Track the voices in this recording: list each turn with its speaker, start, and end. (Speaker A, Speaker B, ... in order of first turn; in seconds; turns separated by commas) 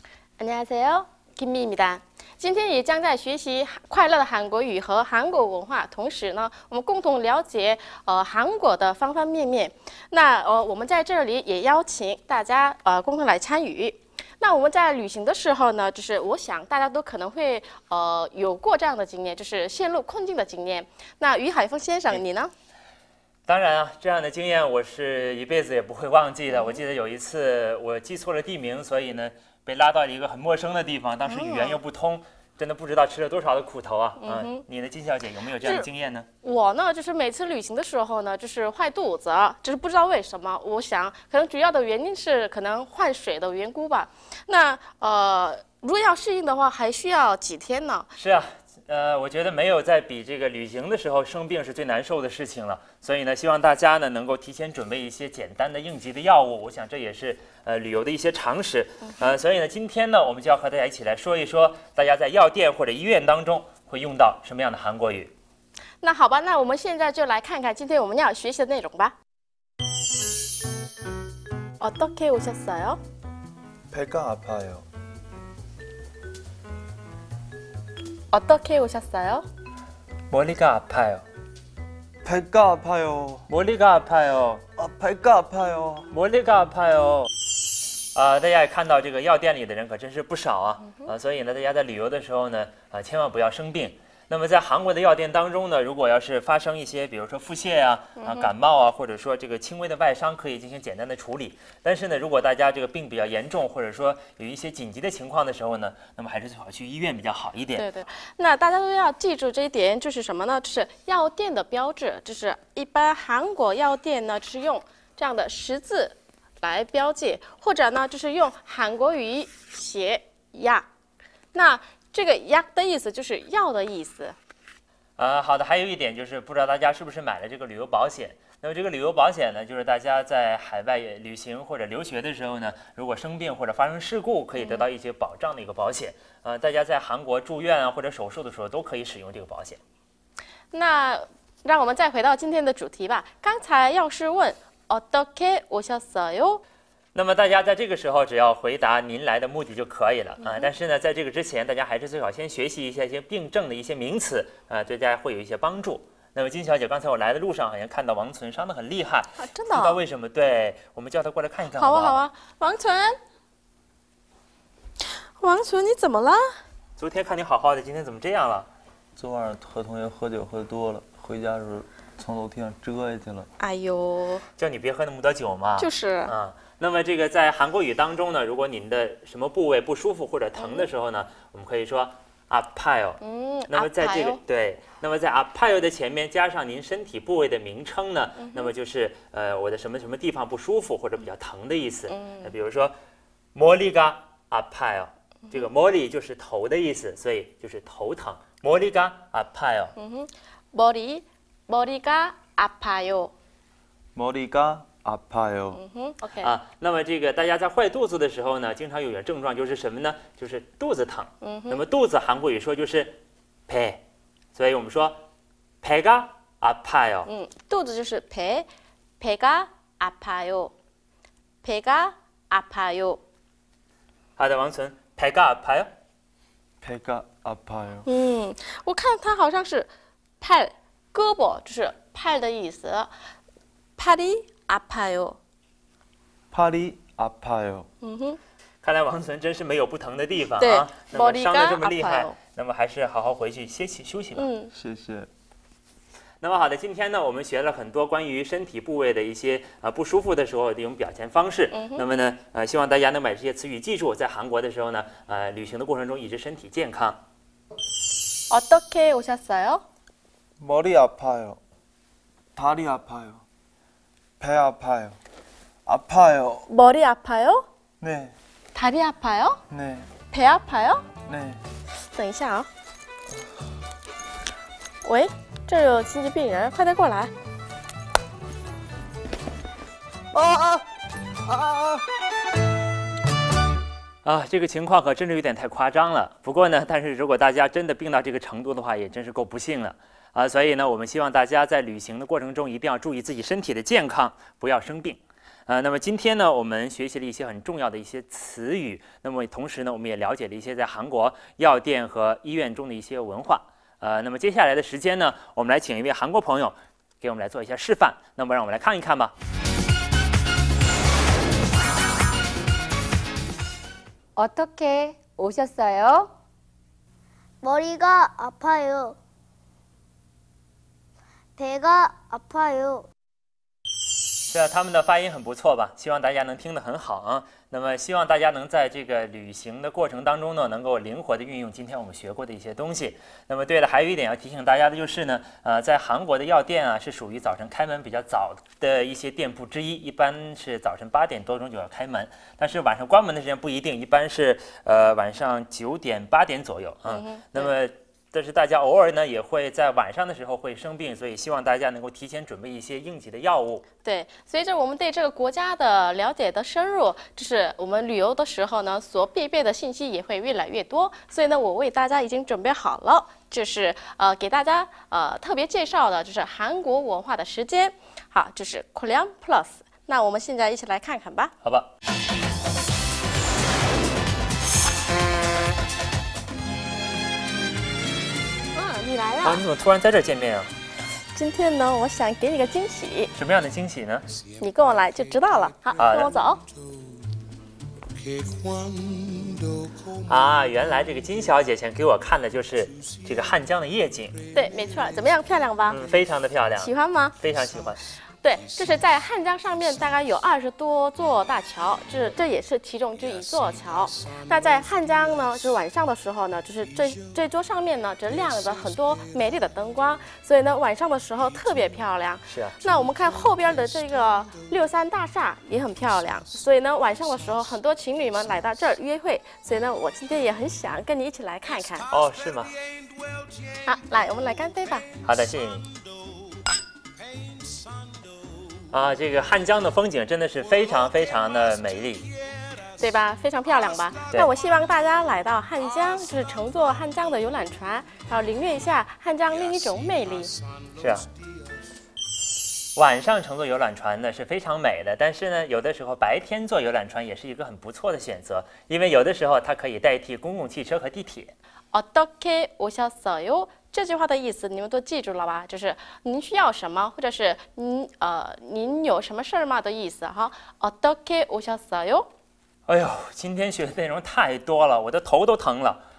Speaker A: 0.4-22.5, Speaker B: 23.5-36.3, Speaker A: 26.5-26.8, Speaker A: 31.2-31.8, Speaker A: 34.2-34.6, Speaker A: 35.6-35.9, Speaker A: 36.4-48.1, Speaker B: 48.1-65.3, Speaker A: 66.0-69.1, Speaker A: 71.8-73.0, Speaker C: 73.9-74.9, Speaker A: 78.3-79.5, Speaker B: 80.3-81.2, Speaker C: 82.2-83.5, Speaker B: 83.5-84.6, Speaker C: 84.8-86.1, Speaker B: 86.1-87.3, Speaker B: 88.1-107.8, Speaker A: 98.2-98.5, Speaker A: 107.7-120.9, Speaker A: 121.5-124.4, Speaker B: 125.2-139.8, Speaker A: 134.6-134.9, Speaker A: 140.7-146.6, Speaker B: 147.1-162.2, Speaker A: 150.4-150.7, Speaker A: 159.4-160.0, Speaker A: 161.7-163.2, Speaker A: 165.4-166.6, Speaker B: 167.0-168.7, Speaker C: 169.2-173.5, Speaker A: 173.6-174.4, Speaker B: 174.6-192.9, Speaker A: 175.8-176.3, Speaker A: 180.6-180.9, Speaker A: 183.2-184.4, Speaker A: 192.1-192.4, Speaker B: 193.6-199.9, Speaker A: 200.0-203.3, Speaker C: 204.1-205.8, Speaker A: 205.7-206.5, Speaker B: 206.4-214.0, Speaker A: 211.4-211.8, Speaker B: 214.6-215.2, Speaker B: 215.8-217.3, Speaker A: 217.2-218.7, Speaker A: 219.2-220.7, Speaker A: 221.6-223.2, Speaker B: 224.4-225.9, Speaker C: 226.8-228.1, Speaker A: 228.0-233.1, Speaker A: 234.0-235.4, Speaker C: 236.5-237.9, Speaker A: 238.0-238.4, Speaker B: 238.8-244.5, Speaker A: 240.6-242.3, Speaker A: 244.3-244.7, Speaker C: 244.8-245.3, Speaker B: 246.4-257.2, Speaker A: 251.7-252.0, Speaker A: 258.5-259.8, Speaker C: 260.6-261.6, Speaker C: 262.6-263.4, Speaker C: 264.4-265.2, Speaker C: 265.9-266.7, Speaker A: 266.7-267.6, Speaker C: 268.0-268.3, Speaker A: 268.7-269.6, Speaker C: 269.7-270.1, Speaker A: 270.3-271.0, Speaker C: 271.3-271.6, Speaker A: 272.1-272.7, Speaker A: 275.0-277.3, Speaker C: 280.3-280.8, Speaker C: 281.5-282.0, Speaker B: 284.2-309.3, Speaker D: 314.4-316.3, Speaker E: 317.6-319.2, Speaker E: 321.6-323.1, Speaker B: 324.5-353.8, Speaker A: 347.1-347.7, Speaker A: 354.0-371.5, Speaker B: 371.6-371.9, Speaker A: 378.7-379.6, Speaker B: 379.4-380.7, Speaker A: 381.3-383.3, Speaker B: 383.3-384.3, Speaker A: 384.6-386.6, Speaker B: 386.0-386.3, Speaker B: 390.2-394.4, Speaker A: 394.5-396.0, Speaker B: 395.9-398.0, Speaker A: 396.8-397.4, Speaker A: 398.4-422.1, Speaker B: 412.5-412.8, Speaker B: 422.1-422.8, Speaker A: 423.8-425.1, Speaker B: 425.2-425.9, Speaker B: 428.9-432.3, Speaker A: 433.0-440.5, Speaker B: 440.9-441.3, Speaker B: 442.9-451.5, Speaker A: 451.9-462.3, Speaker B: 462.9-466.0